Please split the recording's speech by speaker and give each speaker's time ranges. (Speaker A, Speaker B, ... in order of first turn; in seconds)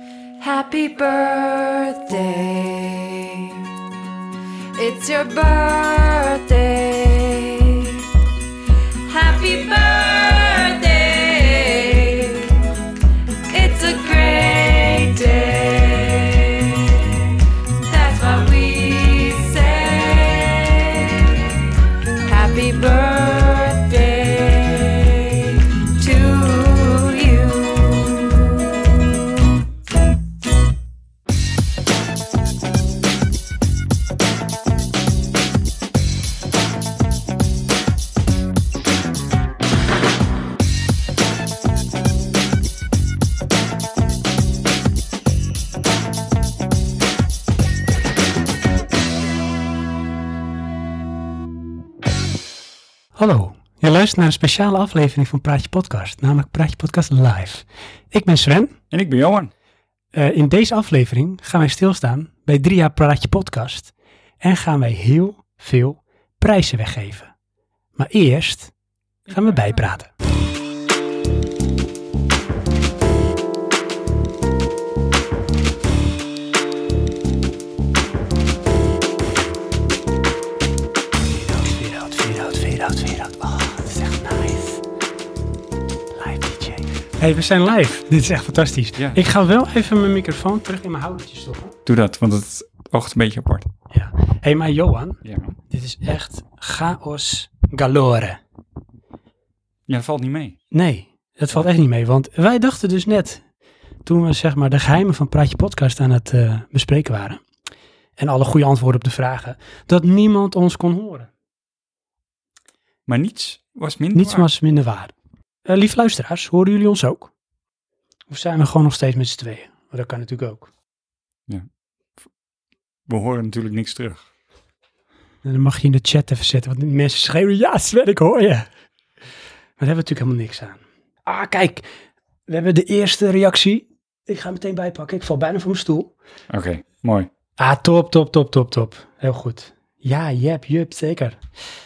Speaker A: 0.4-3.7, 4.8-8.2, 9.0-12.7, 13.5-21.6, 22.3-29.6
Speaker B: 53.2-58.8, 60.1-67.3, 68.0-68.7, 69.3-70.1, 81.3-84.8, 86.1-91.8, 93.9-98.4, 100.7-103.4, 104.0-107.4, 108.2-111.3, 114.1-115.1, 115.7-117.3, 118.3-120.7, 125.4-128.7, 129.8-131.9, 132.5-136.1, 137.6-141.4
Speaker C: 58.9-59.5, 89.0-89.2, 91.8-93.7, 95.2-95.6, 99.9-100.6, 113.1-114.5, 123.1-124.2, 136.5-137.3